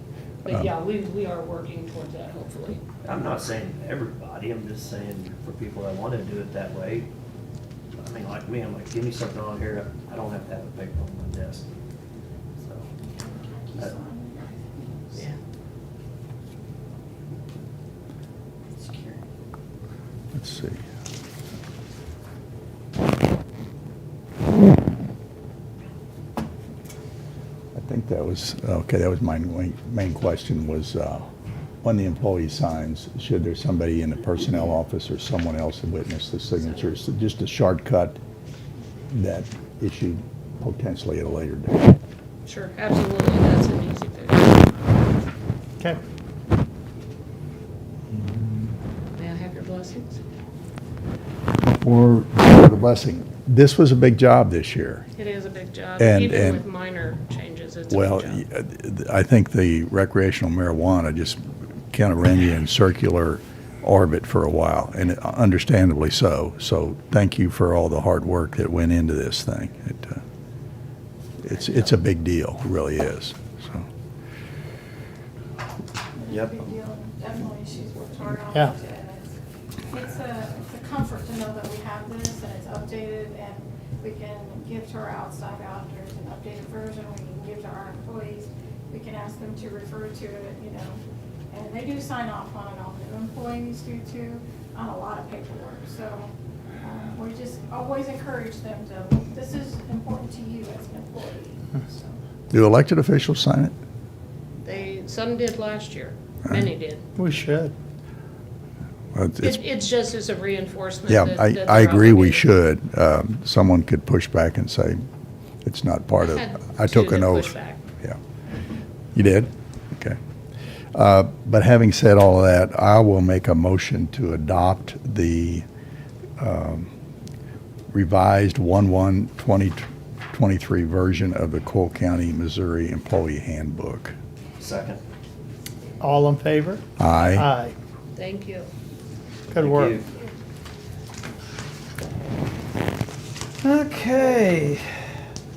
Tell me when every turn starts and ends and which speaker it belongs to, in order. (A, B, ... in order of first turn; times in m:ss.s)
0:00.4-0:02.8 A
0:00.5-0:00.7 B
0:03.0-0:07.1 C
0:08.0-0:11.7 C
0:12.6-0:12.9 C
0:13.1-0:15.3 D
0:18.8-0:19.3 D
0:20.3-0:20.8 B
0:27.7-0:31.3 B
0:31.8-0:38.2 B
0:36.6-0:36.9 A
0:39.1-0:41.9 B
0:42.5-0:44.8 A
0:48.1-0:48.7 B
0:49.2-0:50.2 A
0:51.7-0:55.0 B
0:55.2-0:58.4 A
0:56.0-0:56.6 B
0:57.9-1:10.2 B
1:11.4-1:13.9 B
1:16.2-1:19.4 D
1:16.3-1:16.7 C
1:19.9-1:42.2 D
1:42.5-1:43.7 B
1:44.6-1:47.0 A
1:47.2-1:47.7 E
1:49.1-1:49.6 B
1:49.4-1:52.5 A
1:51.1-1:55.0 B
1:55.6-1:58.2 B
1:56.2-1:57.8 A
1:59.2-2:00.2 B
2:00.9-2:05.6 B
2:06.4-2:06.9 B
2:07.9-2:14.2 B
2:14.6-2:15.0 C
2:16.0-2:16.8 E
2:17.0-2:17.5 B
2:17.4-2:17.7 E
2:18.2-2:18.7 A
2:19.5-2:20.0 E
2:19.6-2:20.1 C
2:23.6-2:24.9 E